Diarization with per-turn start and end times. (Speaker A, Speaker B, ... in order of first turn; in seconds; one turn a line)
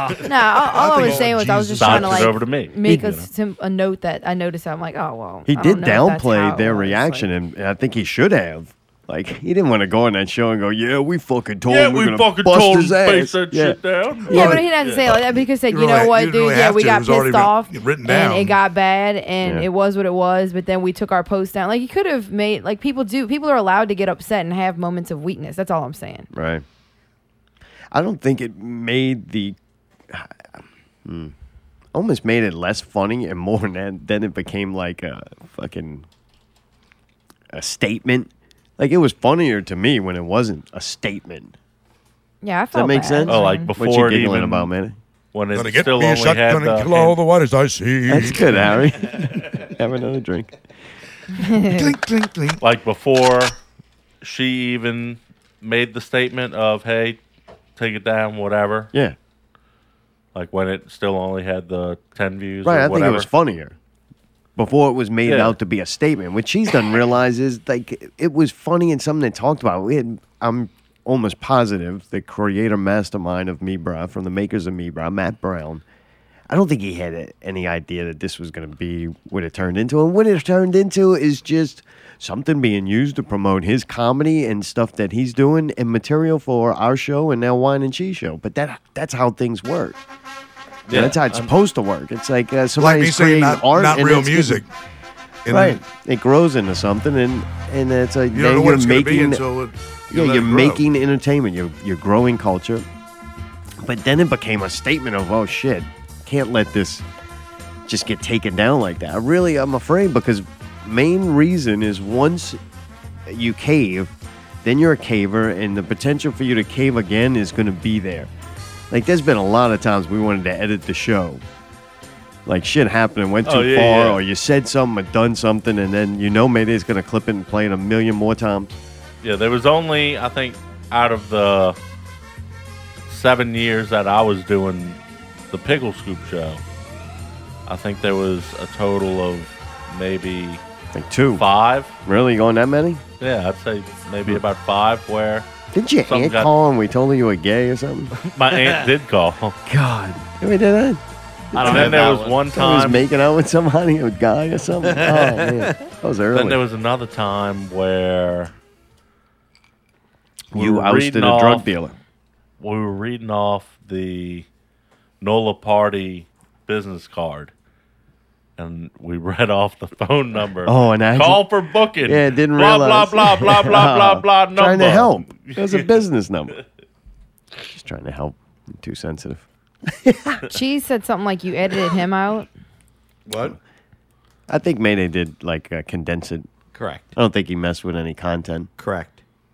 Speaker A: 0.2-7.3
Speaker B: 0.7-2.4
Speaker C: 1.8-3.3
Speaker D: 5.5-13.8
Speaker C: 11.7-15.1
Speaker D: 14.3-14.6
Speaker A: 14.3-26.3
Speaker B: 14.3-18.6
Speaker D: 26.3-26.6
Speaker D: 27.9-29.6
Speaker D: 30.1-31.3
Speaker D: 31.9-36.0
Speaker D: 37.5-41.5
Speaker A: 42.4-43.7
Speaker D: 42.7-45.0
Speaker C: 43.3-44.7
Speaker C: 45.3-47.1
Speaker B: 45.5-48.5
Speaker D: 48.1-50.5
Speaker A: 51.4-51.9
Speaker B: 51.6-52.6
Speaker C: 52.6-53.6
Speaker C: 54.2-57.2
Speaker C: 57.8-58.9
Speaker C: 60.3-63.3
Speaker D: 62.6-63.8
Speaker D: 64.6-75.8
Speaker C: 65.2-65.5
Speaker D: 76.5-90.0
Speaker C: 90.9-91.5
Speaker D: 90.9-94.6
Speaker B: 92.8-94.7
Speaker B: 95.5-95.8
Speaker D: 95.5-99.4
Speaker B: 98.3-100.8
Speaker D: 100.1-102.8
Speaker D: 103.8-107.0
Speaker D: 107.9-112.6
Speaker D: 113.3-114.1
Speaker D: 114.6-118.3
Speaker D: 118.9-121.4
Speaker D: 122.5-128.8
Speaker C: 123.5-124.2
Speaker C: 129.2-131.8
Speaker C: 133.1-135.0
Speaker C: 135.5-136.6
Speaker C: 137.7-140.6
Speaker D: 140.9-141.4
Speaker C: 141.4-141.9
Speaker D: 142.1-143.0
Speaker C: 143.2-145.5
Speaker D: 145.7-148.1
Speaker C: 146.1-146.5
Speaker C: 148.2-149.6
Speaker D: 149.7-151.0
Speaker E: 151.5-152.4
Speaker D: 151.6-156.6
Speaker C: 151.6-153.1
Speaker E: 154.9-155.7
Speaker C: 156.3-158.5
Speaker D: 160.5-161.9
Speaker C: 160.5-161.7
Speaker C: 162.6-164.5
Speaker C: 165.2-167.5
Speaker C: 168.6-175.9
Speaker D: 170.7-171.4
Speaker D: 172.1-176.6
Speaker D: 177.7-179.5
Speaker D: 180.0-180.4
Speaker A: 180.5-182.5
Speaker B: 183.3-183.6
Speaker D: 184.5-186.5
Speaker E: 186.7-187.1
Speaker D: 187.1-188.7
Speaker E: 188.8-189.2